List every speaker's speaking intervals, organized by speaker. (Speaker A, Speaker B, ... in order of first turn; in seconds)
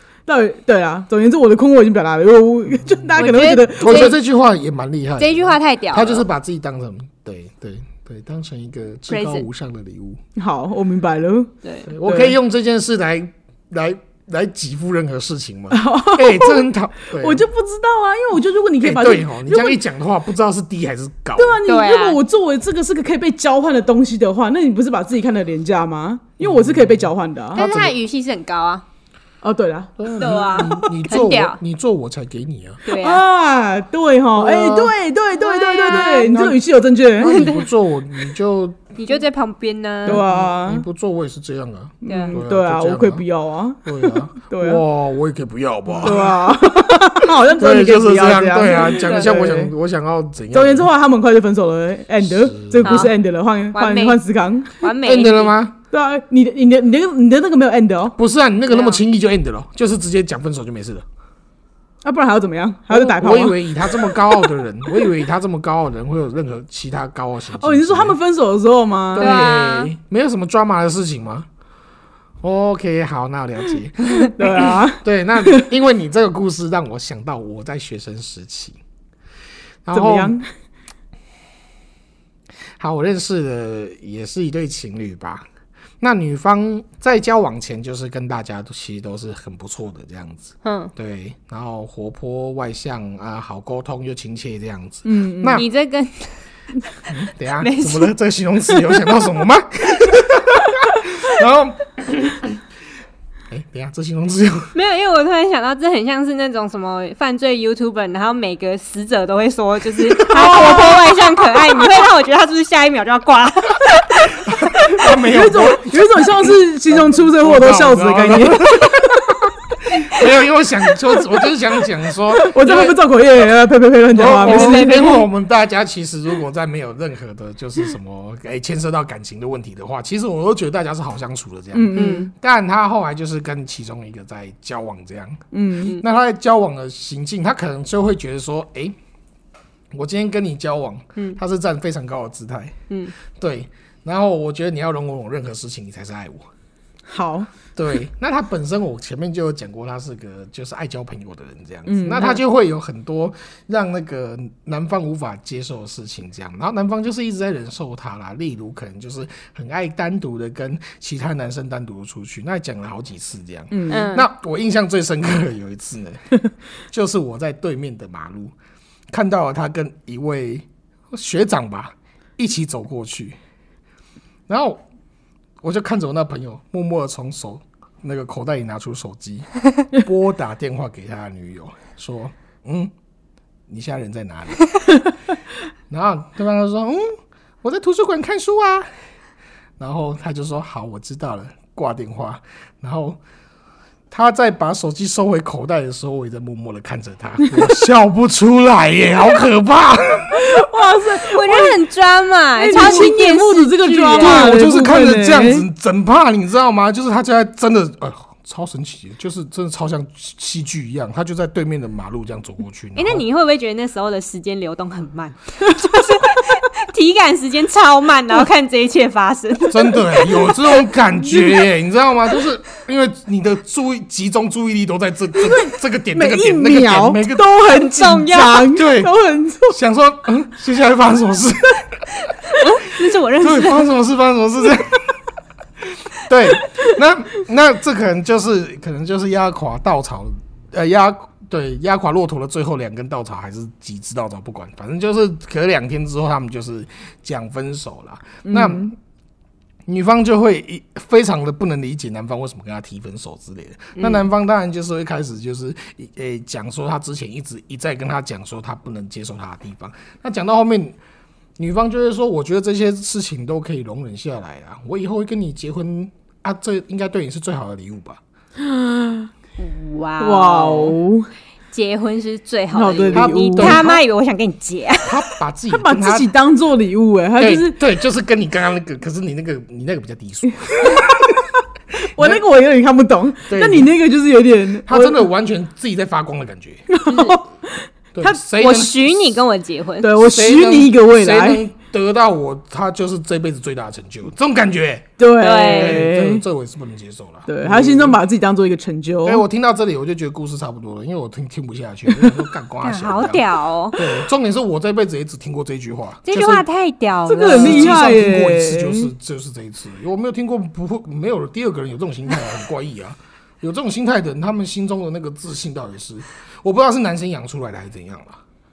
Speaker A: 0.3-4.1, 10.4-11.5, 12.0-12.4, 15.7-19.8, 21.4-27.6, 29.4-30.4, 32.9-37.5, 40.1-40.9, 42.0-44.8, 46.0-49.7, 50.5-54.8, 55.9-58.1, 62.0-64.5, 67.6-69.4, 74.2-75.7, 79.9-80.5, 95.0-95.6, 110.4-110.8, 115.2-119.2, 122.3-125.1, 131.7-132.3, 135.5-136.0, 147.1-147.5, 151.9-152.4, 163.7-164.1, 200.3-201.8, 202.6-205.7, 225.3-229.8, 248.4-248.9, 268.6-269.3, 270.2-271.3, 272.7-273.9, 275.7-277.8, 280.8-281.2, 282.0-285.3, 286.9-288.4, 290.0-291.6, 295.2-296.4, 297.5-299.4, 302.1-302.4, 307.3-309.1
Speaker B: 2.9-3.1, 3.8-10.2, 11.9-17.5, 18.8-21.6, 26.4-28.0, 30.0-32.8, 34.4-34.9, 35.9-36.6, 37.2-38.8, 40.1-43.2, 43.9-50.9, 52.2-53.1, 55.0-55.8, 58.2-61.0, 62.9-68.2, 69.1-71.5, 72.4-78.8, 79.8-80.4, 82.8-85.5, 86.0-95.7, 97.1-102.6, 103.5-104.7, 110.2-110.9, 114.5-123.0, 124.1-138.9, 139.9-146.5, 147.8-168.5, 169.1-173.4, 174.5-174.8, 175.6-182.9, 183.7-184.7, 185.9-188.9, 189.8-193.2, 194.1-200.5, 202.7-203.1, 204.2-213.2, 219.7-227.5, 228.7-229.1, 229.7-232.1, 233.4-235.2, 236.1-248.9, 249.9-261.0, 261.6-268.2, 273.1-274.0, 275.0-276.3, 277.4-281.5, 282.1-282.4, 283.5-283.9, 284.9-286.9, 288.1-289.4, 290.2-295.1, 295.7-298.2, 299.2-306.6, 307.5-318.4
Speaker C: 3.1-4.2, 5.2-6.2, 9.1-9.5, 11.6-11.9, 21.7-22.2, 27.5-28.9, 30.2-31.6, 32.9-33.2, 35.4-36.4, 37.2-37.7, 39.0-40.2, 42.1-42.4, 48.8-49.3, 52.8-53.1, 53.7-54.2, 54.8-55.5, 58.7-59.0, 69.2-69.9, 90.6-90.9, 95.5-96.4, 97.6-98.1, 98.7-99.2, 104.7-115.0, 124.4-125.2, 131.9-132.3, 163.9-164.3, 201.2-204.6, 212.9-220.6, 227.7-228.7, 232.5-233.9, 253.9-254.2, 269.6-271.0, 271.7-275.3, 287.1-287.4, 288.6-290.1, 295.4-296.1, 302.8-304.0, 306.3-307.9